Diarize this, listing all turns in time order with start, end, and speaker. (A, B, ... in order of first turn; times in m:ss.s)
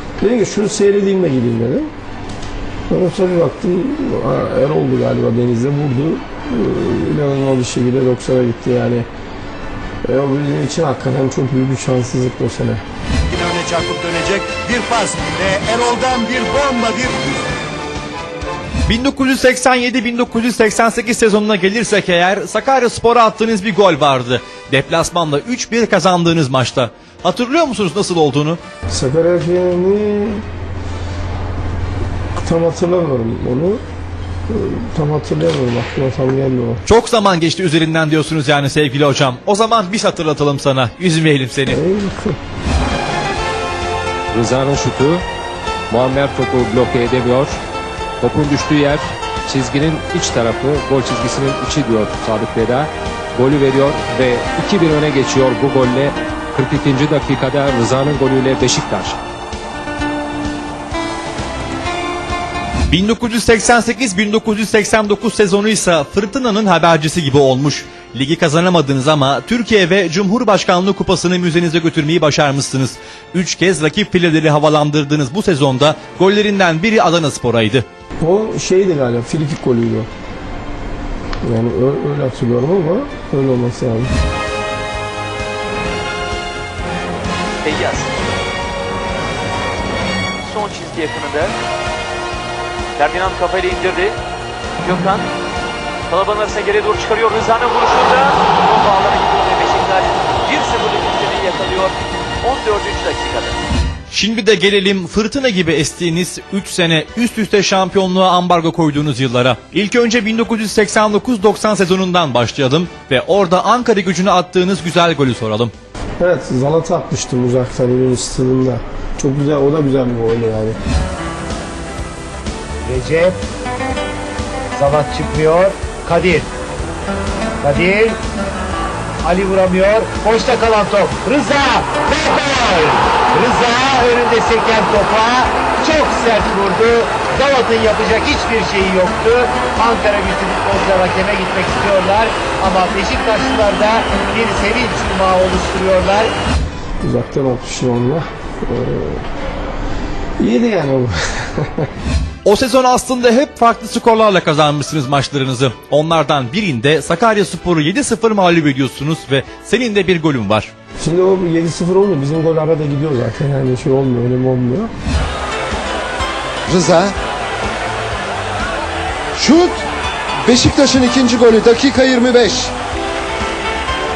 0:00.2-0:01.9 A
0:02.9-0:09.1 A
0:10.0-0:12.8 A
0:13.3-0:17.4 B
0:18.9-0:28.6 C
0:28.9-0:30.4 A
0:32.4-0:33.8 A
0:34.5-0:36.8 A
0:36.8-0:41.8 C
0:41.7-0:42.4 A
0:44.3-0:45.2 D
0:45.9-0:47.6 D
0:48.2-0:59.2 D
1:02.9-1:17.8 C
1:18.2-1:20.1 A
1:21.4-1:24.1 A
1:27.6-1:28.1 E
1:30.4-1:31.5 E
1:33.0-1:34.2 E
1:34.8-1:35.3 E
1:36.1-1:43.5 E
1:44.1-1:55.7 C
1:56.2-2:00.8 A
2:02.8-2:03.4 F
2:04.7-2:06.5 F
2:07.6-2:08.2 F
2:09.2-2:26.3 F
2:27.0-2:29.2 A
2:30.4-2:31.9 A
2:32.4-2:40.7 C
2:41.0-2:44.9 A
2:46.7-2:47.1 G
2:49.3-2:49.8 G
2:50.4-2:52.7 G